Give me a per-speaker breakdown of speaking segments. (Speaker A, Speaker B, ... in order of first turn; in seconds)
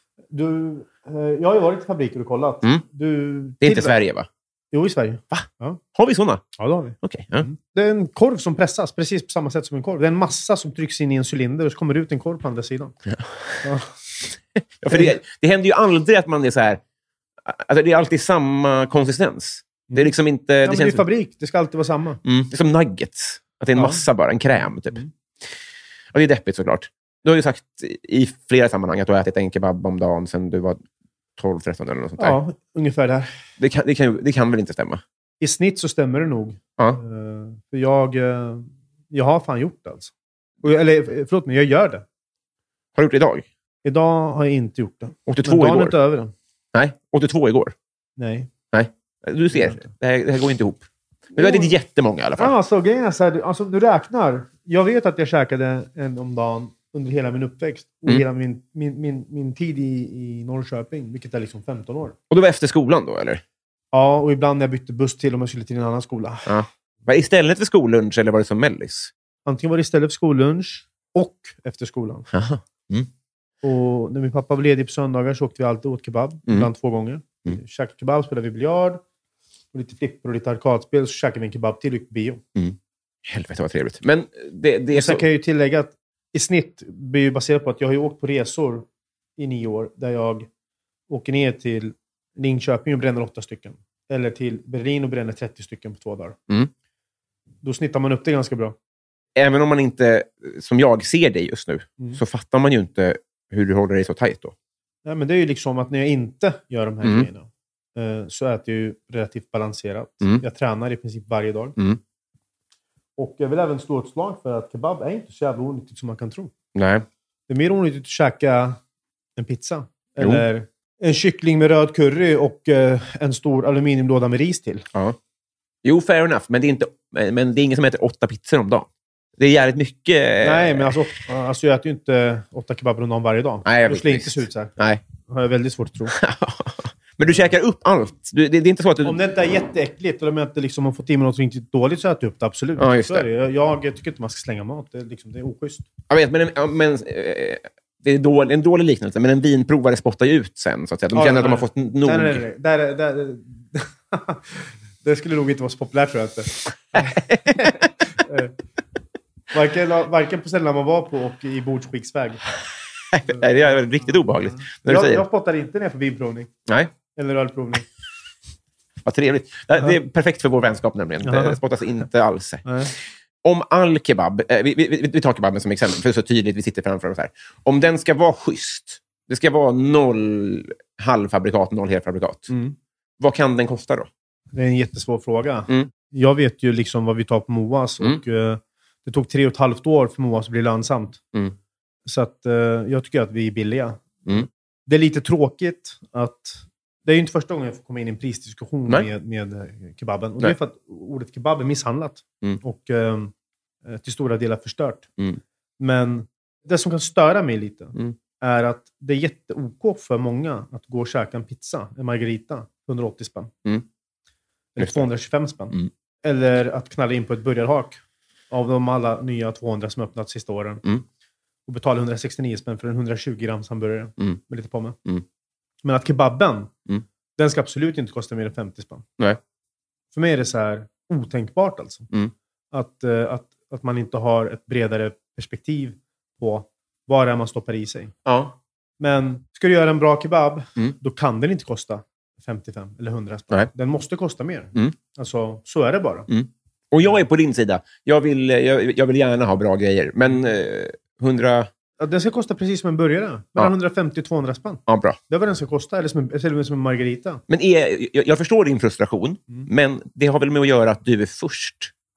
Speaker A: 0.3-4.0, 4.7-5.8, 6.6-12.9, 13.6-13.9, 14.9-15.1, 20.6-22.2, 23.7-24.0, 32.2-33.3, 35.4-40.1, 40.6-42.0, 43.8-46.3, 48.2-48.5, 49.5-49.9, 51.4-51.7, 52.4-62.1, 63.9-66.5, 69.5-72.3, 73.6-79.0, 79.7-82.4, 84.9-88.8, 89.4-90.5, 91.1-96.4, 97.6-98.7, 105.0-111.8, 113.2-116.5, 117.5-118.8, 119.4-124.9, 130.4-134.7, 135.3-136.2, 139.0-145.8, 151.1-158.5, 159.5-162.4, 163.3-166.5, 167.1-167.9, 171.2-171.6, 172.6-172.9, 182.5-182.8, 184.5-191.2, 192.1-203.3, 203.8-205.1, 205.8-213.5, 214.7-220.8, 221.7-225.0, 225.8-226.7, 227.4-229.0, 230.1-232.1, 232.7-238.1, 239.0-246.3, 252.0-257.4
Speaker B: 3.6-4.3, 5.3-6.5, 7.0-7.5, 13.1-13.6, 14.6-16.8, 17.4-21.0, 22.2-25.0, 26.1-30.8, 31.4-32.4, 33.6-35.0, 43.0-43.5, 45.3-46.0, 46.7-47.7, 48.7-52.5, 62.3-63.4, 66.5-69.1, 72.3-73.1, 82.5-85.2, 99.3-104.5, 107.0-107.3, 116.7-117.0, 120.2-120.4, 125.8-131.0, 133.6-135.0, 136.1-139.2, 142.8-143.2, 146.1-152.4, 156.9-157.7, 163.1-165.2, 166.7-166.9, 169.0-172.7, 173.4-182.5, 183.2-184.1, 214.8-215.1, 238.2-238.6, 246.3-251.7, 254.9-255.2, 257.5-261.9